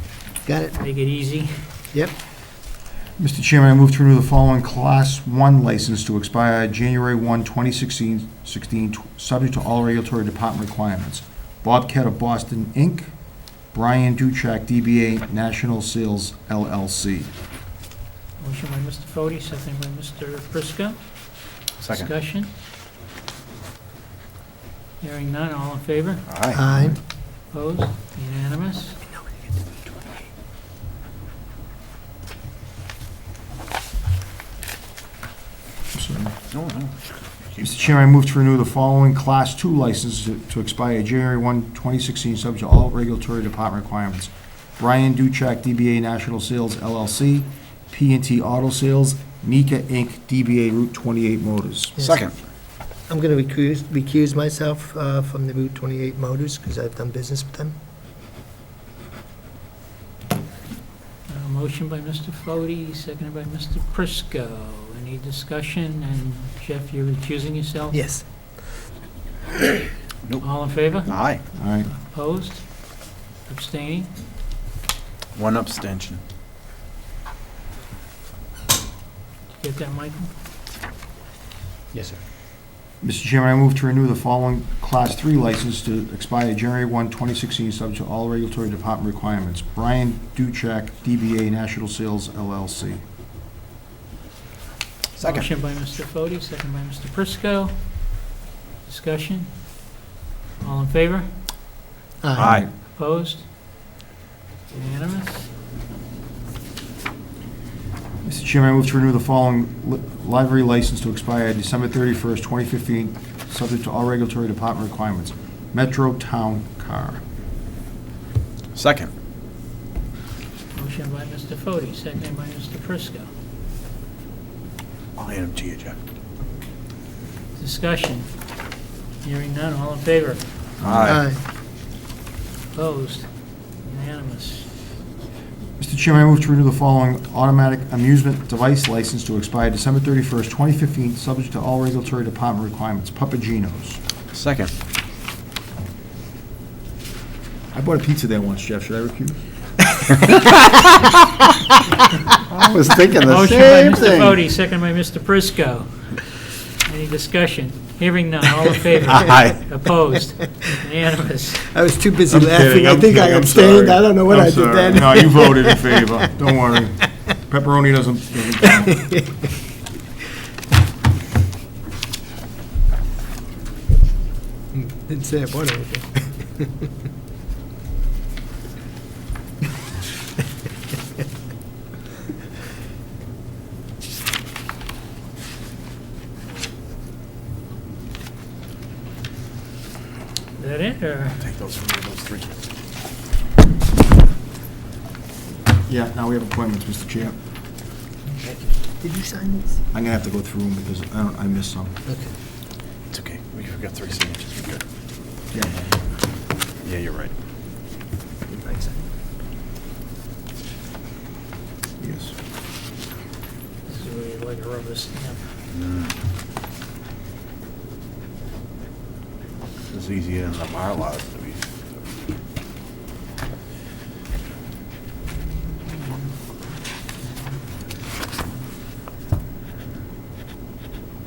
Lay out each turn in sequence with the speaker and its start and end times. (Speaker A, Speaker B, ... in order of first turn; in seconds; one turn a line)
Speaker A: 0.5-0.8
Speaker B: 0.7-1.7
Speaker C: 3.2-13.1
Speaker C: 13.7-17.3
Speaker B: 18.4-21.0
Speaker D: 21.8-22.1
Speaker B: 21.9-22.5
Speaker B: 25.0-26.2
Speaker D: 26.3-26.9
Speaker A: 26.5-27.0
Speaker B: 27.5-29.0
Speaker A: 29.1-30.2
Speaker C: 35.9-36.3
Speaker D: 36.5-37.9
Speaker C: 37.6-52.0
Speaker A: 52.0-52.2
Speaker D: 52.0-52.3
Speaker A: 53.1-57.8
Speaker B: 61.3-68.0
Speaker A: 67.9-68.5
Speaker D: 70.2-71.4
Speaker B: 70.4-71.1
Speaker C: 71.5-71.9
Speaker B: 71.9-72.9
Speaker B: 73.5-74.1
Speaker D: 75.3-76.2
Speaker B: 79.5-80.3
Speaker D: 81.9-82.2
Speaker C: 83.0-93.0
Speaker D: 95.1-95.5
Speaker B: 95.2-98.2
Speaker B: 98.8-99.5
Speaker B: 100.6-101.3
Speaker A: 102.2-102.5
Speaker D: 102.4-102.7
Speaker C: 102.4-102.7
Speaker B: 102.7-103.5
Speaker B: 104.7-105.5
Speaker C: 108.2-117.2
Speaker D: 118.8-119.1
Speaker B: 120.8-123.3
Speaker D: 125.2-126.0
Speaker B: 127.6-128.3
Speaker B: 129.2-130.4
Speaker C: 130.8-131.2
Speaker D: 130.8-131.2
Speaker A: 131.0-131.4
Speaker B: 132.7-134.7
Speaker C: 135.8-144.0
Speaker D: 144.3-144.7
Speaker C: 147.7-149.4
Speaker C: 152.5-154.4
Speaker B: 153.2-161.7
Speaker D: 159.1-159.7
Speaker A: 161.7-166.3
Speaker C: 162.3-169.1
Speaker A: 168.8-169.4
Speaker A: 174.7-176.7
Speaker B: 190.6-191.5
Speaker D: 191.4-192.6
Speaker C: 195.8-197.4
Speaker A: 198.6-199.8
Speaker C: 199.9-201.9
Speaker A: 202.1-202.3
Speaker D: 203.1-204.8
Speaker C: 205.5-206.0
Speaker D: 206.8-207.3
Speaker A: 208.5-209.0
Speaker C: 212.0-212.3
Speaker B: 213.9-215.5
Speaker D: 215.7-216.1
Speaker D: 219.9-221.6